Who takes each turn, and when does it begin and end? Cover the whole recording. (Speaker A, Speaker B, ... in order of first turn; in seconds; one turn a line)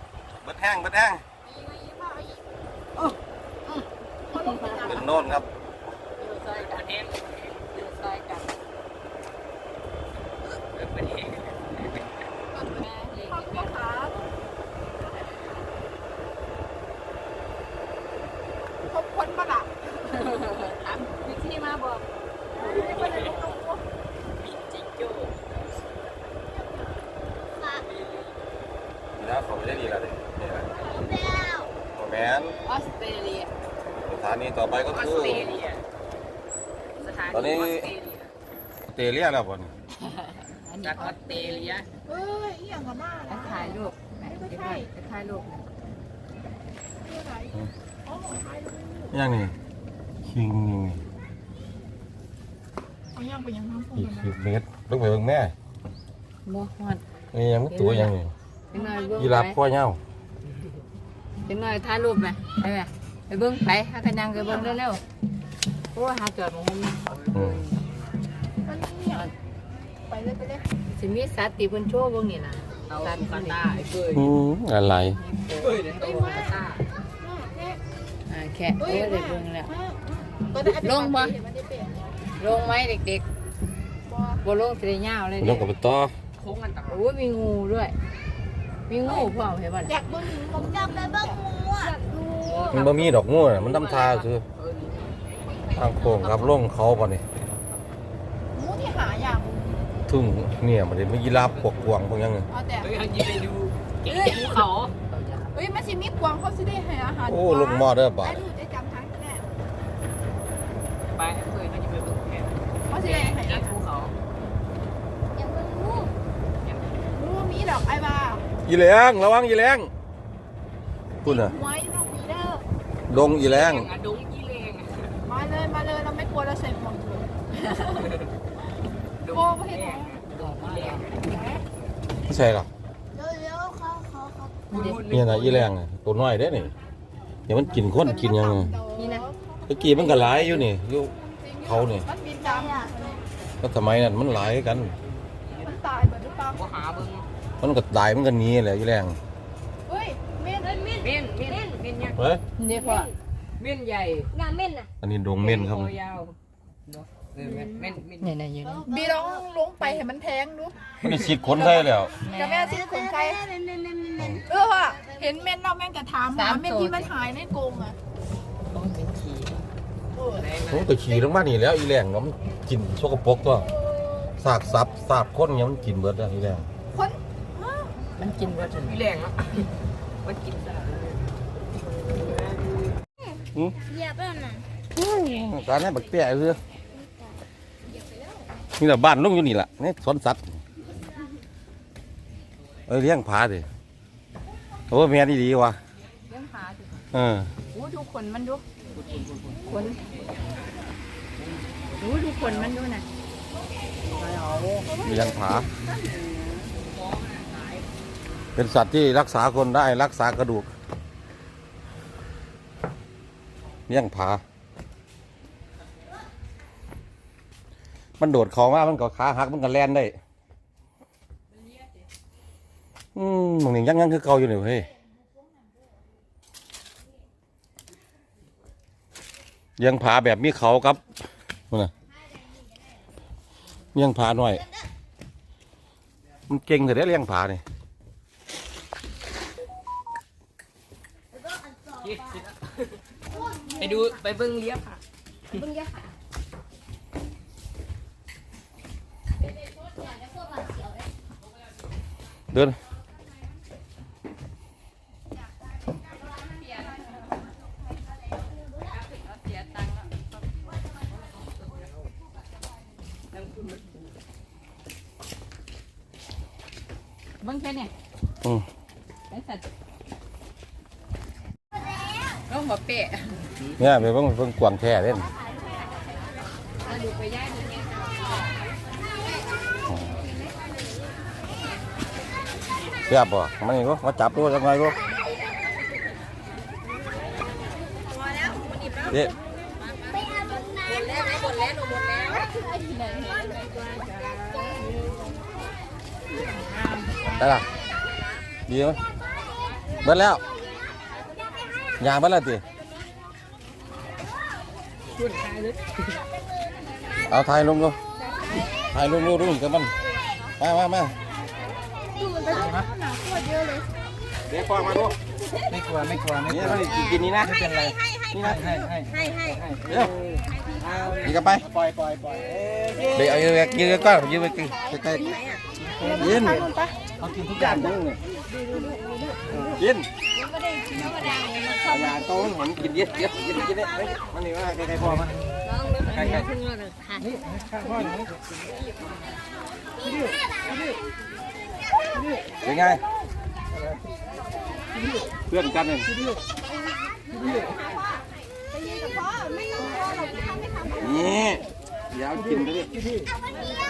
Speaker A: 0.4-1.2
Speaker B: 1.5-2.4
Speaker C: 4.3-5.0
Speaker B: 4.3-5.4
Speaker A: 4.8-5.5
Speaker C: 6.2-7.0
Speaker D: 6.5-7.7
Speaker C: 7.7-8.5
Speaker D: 10.6-12.0
Speaker B: 12.5-14.3
Speaker C: 12.7-13.8
Speaker B: 18.9-20.2
Speaker C: 20.1-22.0
Speaker B: 22.5-23.8
Speaker D: 22.6-23.4
Speaker D: 24.4-25.6
Speaker D: 27.6-28.4
Speaker A: 29.1-30.7
Speaker E: 31.1-31.7
Speaker A: 31.9-32.5
Speaker C: 32.7-33.5
Speaker A: 34.0-35.5
Speaker D: 34.9-35.8
Speaker D: 37.0-38.3
Speaker A: 37.3-37.9
Speaker A: 38.9-39.7
Speaker C: 40.0-41.8
Speaker D: 40.8-41.9
Speaker B: 42.0-44.9
Speaker C: 43.3-45.5
Speaker B: 47.0-49.1
Speaker A: 49.1-49.5
Speaker A: 50.2-51.0
Speaker B: 53.1-54.3
Speaker A: 54.0-55.5
Speaker C: 56.4-57.0
Speaker A: 57.3-58.3
Speaker C: 57.7-58.1
Speaker C: 58.7-59.6
Speaker B: 58.7-59.3
Speaker A: 59.2-60.0
Speaker C: 61.5-65.0
Speaker B: 64.4-64.8
Speaker C: 65.9-67.7
Speaker A: 67.3-67.6
Speaker B: 68.6-69.3
Speaker B: 70.1-70.7
Speaker C: 70.9-73.6
Speaker D: 72.9-74.3
Speaker A: 74.1-75.2
Speaker C: 75.1-76.5
Speaker D: 75.6-76.8
Speaker B: 77.2-77.8
Speaker C: 78.3-79.7
Speaker B: 78.8-82.0
Speaker C: 80.6-81.3
Speaker C: 82.4-83.2
Speaker B: 84.0-84.5
Speaker C: 84.4-85.7
Speaker A: 85.4-86.1
Speaker D: 86.4-87.0
Speaker C: 86.8-87.9
Speaker C: 88.9-90.0
Speaker B: 89.0-89.3
Speaker B: 89.8-91.4
Speaker E: 91.3-91.7
Speaker D: 91.8-95.2
Speaker A: 92.7-94.4
Speaker A: 95.7-97.2
Speaker D: 96.0-96.4
Speaker B: 98.5-99.9
Speaker A: 100.1-102.5
Speaker B: 102.5-102.9
Speaker D: 102.8-104.9
Speaker B: 104.1-104.6
Speaker C: 105.1-105.5
Speaker B: 105.5-109.5
Speaker A: 107.2-108.4
Speaker D: 111.0-114.1
Speaker B: 112.9-114.0
Speaker E: 115.4-116.1
Speaker B: 117.1-118.4
Speaker A: 118.6-119.9
Speaker A: 121.2-121.5
Speaker B: 121.2-122.6
Speaker A: 123.1-123.9
Speaker D: 123.4-125.1
Speaker B: 125.2-127.3
Speaker D: 127.9-128.3
Speaker D: 129.2-131.1
Speaker B: 129.3-130.2
Speaker C: 130.3-131.1
Speaker B: 131.2-131.6
Speaker A: 132.2-132.7
Speaker E: 133.1-134.5
Speaker D: 134.7-135.7
Speaker C: 134.7-135.0
Speaker A: 134.9-136.7
Speaker A: 137.5-138.7
Speaker B: 137.7-140.5
Speaker C: 138.9-139.2
Speaker A: 139.7-142.1
Speaker B: 141.4-143.2
Speaker A: 143.6-144.9
Speaker B: 145.6-146.7
Speaker D: 146.5-147.2
Speaker A: 147.6-149.2
Speaker B: 149.9-150.9
Speaker D: 151.0-152.2
Speaker A: 152.2-152.4
Speaker C: 152.6-153.1
Speaker D: 153.6-154.3
Speaker E: 154.3-154.9
Speaker A: 155.0-155.9
Speaker D: 155.4-156.3
Speaker D: 156.9-158.3
Speaker C: 158.2-158.9
Speaker B: 158.8-160.8
Speaker A: 161.0-162.1
Speaker B: 161.5-163.4
Speaker C: 162.2-162.7
Speaker E: 162.7-164.2
Speaker A: 164.2-164.4
Speaker B: 164.4-167.9
Speaker C: 166.3-167.1
Speaker C: 168.7-169.6
Speaker B: 170.1-170.5
Speaker D: 170.4-170.9
Speaker A: 170.7-173.7
Speaker A: 174.4-176.7
Speaker B: 176.9-177.9
Speaker C: 178.2-179.0
Speaker D: 178.8-179.7
Speaker D: 180.2-181.2
Speaker E: 183.9-184.6
Speaker A: 184.9-186.6
Speaker A: 188.8-190.5
Speaker A: 192.9-193.7
Speaker A: 194.9-195.8
Speaker C: 196.3-197.0
Speaker A: 197.1-197.5
Speaker C: 197.7-198.6
Speaker D: 198.9-200.1
Speaker C: 199.7-200.0
Speaker D: 201.4-202.7
Speaker C: 201.9-203.1
Speaker D: 204.2-204.8
Speaker B: 204.8-205.6
Speaker A: 205.0-205.7
Speaker D: 206.8-207.8
Speaker A: 208.6-210.7
Speaker A: 213.9-214.4
Speaker A: 218.2-220.2
Speaker A: 223.2-224.9
Speaker A: 229.8-231.0
Speaker A: 233.9-234.6
Speaker A: 236.5-237.6
Speaker D: 241.9-243.0
Speaker D: 243.7-245.0
Speaker E: 245.6-246.1
Speaker A: 252.5-252.8
Speaker C: 259.0-260.2
Speaker D: 263.3-263.9
Speaker C: 267.4-267.9
Speaker C: 269.3-269.6
Speaker C: 272.5-273.4
Speaker A: 273.8-275.3
Speaker C: 276.8-278.5
Speaker A: 279.9-280.1
Speaker A: 283.1-285.0
Speaker A: 289.1-289.3
Speaker E: 290.3-290.9
Speaker C: 291.0-292.1
Speaker B: 292.3-294.9
Speaker C: 293.9-294.3
Speaker B: 296.6-297.4
Speaker A: 297.4-297.6
Speaker A: 298.6-299.0
Speaker A: 300.0-300.4
Speaker A: 302.0-302.6
Speaker D: 305.1-306.2
Speaker A: 307.3-308.0
Speaker B: 308.4-308.7
Speaker A: 308.9-309.9
Speaker A: 310.6-311.1
Speaker B: 312.2-313.9
Speaker A: 314.5-315.2
Speaker D: 315.7-316.4
Speaker A: 316.4-317.7
Speaker A: 318.3-318.7
Speaker D: 319.4-319.8
Speaker A: 319.9-320.1
Speaker D: 320.3-321.3
Speaker A: 321.2-321.7
Speaker D: 322.0-323.2
Speaker A: 323.1-325.3
Speaker B: 323.7-325.4
Speaker D: 325.9-326.3
Speaker B: 325.9-327.0
Speaker A: 326.1-326.7
Speaker A: 327.5-328.2
Speaker B: 328.7-329.2
Speaker A: 329.8-330.1
Speaker B: 331.7-332.0
Speaker A: 331.9-335.3
Speaker C: 335.7-336.5
Speaker D: 336.1-336.4
Speaker D: 337.7-338.1
Speaker A: 342.6-343.0
Speaker A: 345.5-346.1
Speaker B: 347.5-347.9
Speaker B: 348.9-351.5
Speaker A: 351.0-352.9